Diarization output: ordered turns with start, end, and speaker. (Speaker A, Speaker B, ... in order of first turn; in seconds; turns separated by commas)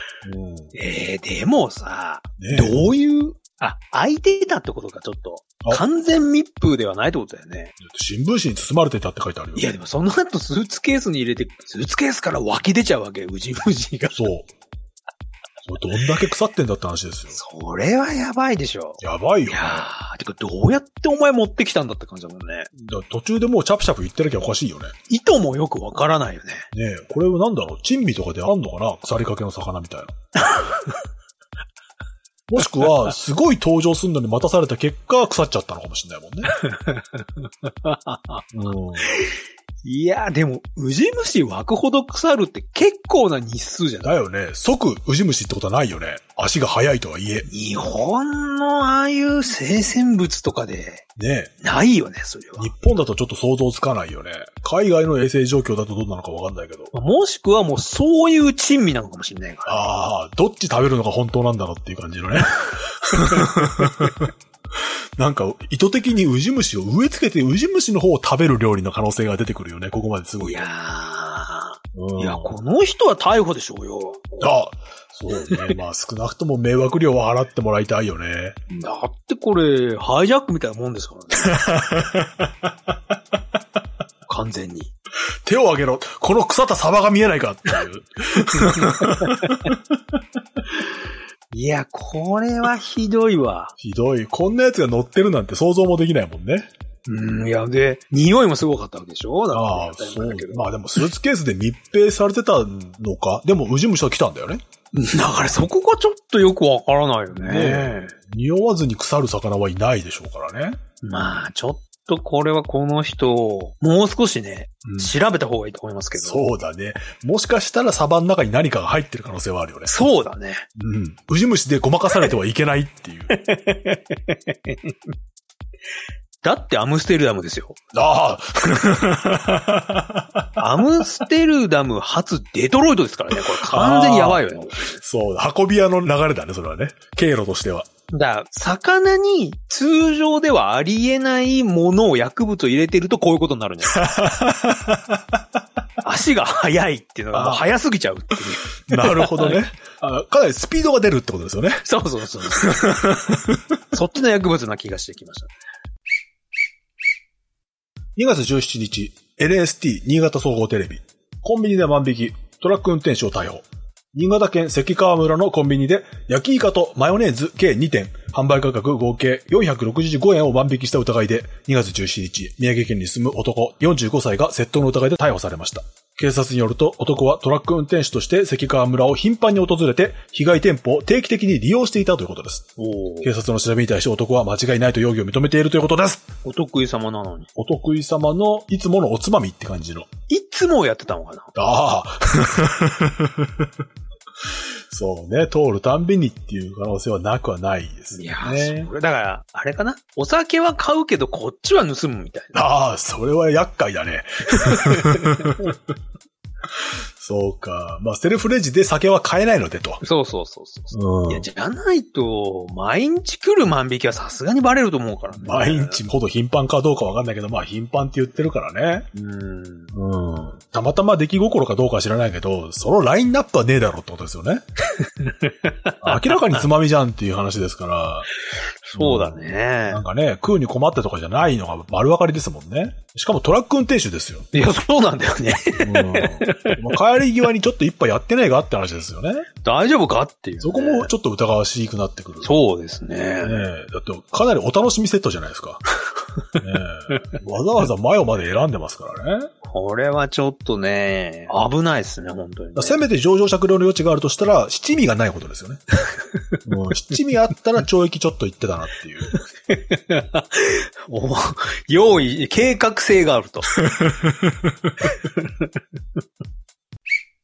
Speaker A: 0.2-0.7, Speaker B: 0.7-7.8, Speaker A: 2.4-2.8, Speaker A: 7.8-9.7, Speaker B: 9.6-14.2, Speaker A: 14.2-14.5, Speaker A: 15.7-17.4, Speaker B: 17.3-22.7, Speaker A: 19.0-19.9, Speaker A: 22.8-24.9, Speaker B: 25.1-26.7, Speaker A: 26.7-30.1, Speaker B: 30.4-30.9, Speaker A: 32.5-36.5, Speaker B: 36.5-38.5, Speaker A: 38.5-39.2, Speaker B: 39.0-44.1, Speaker A: 44.0-47.5, Speaker B: 47.5-51.0, Speaker A: 51.2-51.5, Speaker B: 51.6-52.7, Speaker A: 52.6-56.9, Speaker B: 56.9-59.9, Speaker A: 59.7-64.3, Speaker B: 63.2-63.5, Speaker A: 65.2-70.7, Speaker B: 70.4-74.5, Speaker A: 71.9-72.5, Speaker A: 74.4-78.6, Speaker B: 75.3-75.7, Speaker B: 78.7-81.7, Speaker A: 81.4-82.7, Speaker B: 84.3-84.9, Speaker A: 85.5-90.0, Speaker B: 88.6-89.7, Speaker B: 91.5-93.7, Speaker A: 93.8-96.7, Speaker B: 97.1-100.7, Speaker A: 99.5-104.6, Speaker B: 104.9-108.1, Speaker A: 107.4-110.8, Speaker B: 111.0-116.4, Speaker A: 114.8-115.1, Speaker A: 116.2-120.0, Speaker B: 119.9-120.7, Speaker A: 120.8-123.4, Speaker B: 123.3-124.9, Speaker B: 126.4-127.8, Speaker A: 127.9-130.6, Speaker B: 130.6-135.0, Speaker A: 133.5-134.4, Speaker A: 135.0-137.9, Speaker B: 138.1-144.1, Speaker A: 143.9-145.4, Speaker B: 146.0-149.6, Speaker A: 147.3-147.7, Speaker A: 148.9-151.8, Speaker B: 151.8-153.3, Speaker A: 152.5-153.6, Speaker B: 153.9-155.5, Speaker A: 158.2-182.7, Speaker B: 182.8-183.3, Speaker A: 183.2-186.3, Speaker B: 186.4-187.5, Speaker A: 187.6-190.1, Speaker B: 190.3-191.5, Speaker A: 191.6-193.7, Speaker A: 194.9-198.9, Speaker B: 198.1-202.6, Speaker A: 202.5-205.8, Speaker B: 204.6-205.6, Speaker A: 207.2-210.0, Speaker B: 210.0-216.0, Speaker A: 210.9-211.5, Speaker A: 215.4-219.1, Speaker B: 219.1-219.9, Speaker A: 219.9-224.6, Speaker B: 225.0-226.4, Speaker A: 226.0-228.3, Speaker B: 228.9-230.0, Speaker A: 229.0-234.5, Speaker B: 234.5-236.8, Speaker A: 235.8-239.5, Speaker B: 239.6-241.1, Speaker A: 240.6-242.5, Speaker B: 242.4-243.7, Speaker A: 243.4-245.8, Speaker A: 246.6-249.5, Speaker B: 249.6-253.0, Speaker A: 252.8-255.8, Speaker A: 256.6-259.3, Speaker B: 259.4-263.8, Speaker A: 263.8-264.8, Speaker B: 265.1-265.6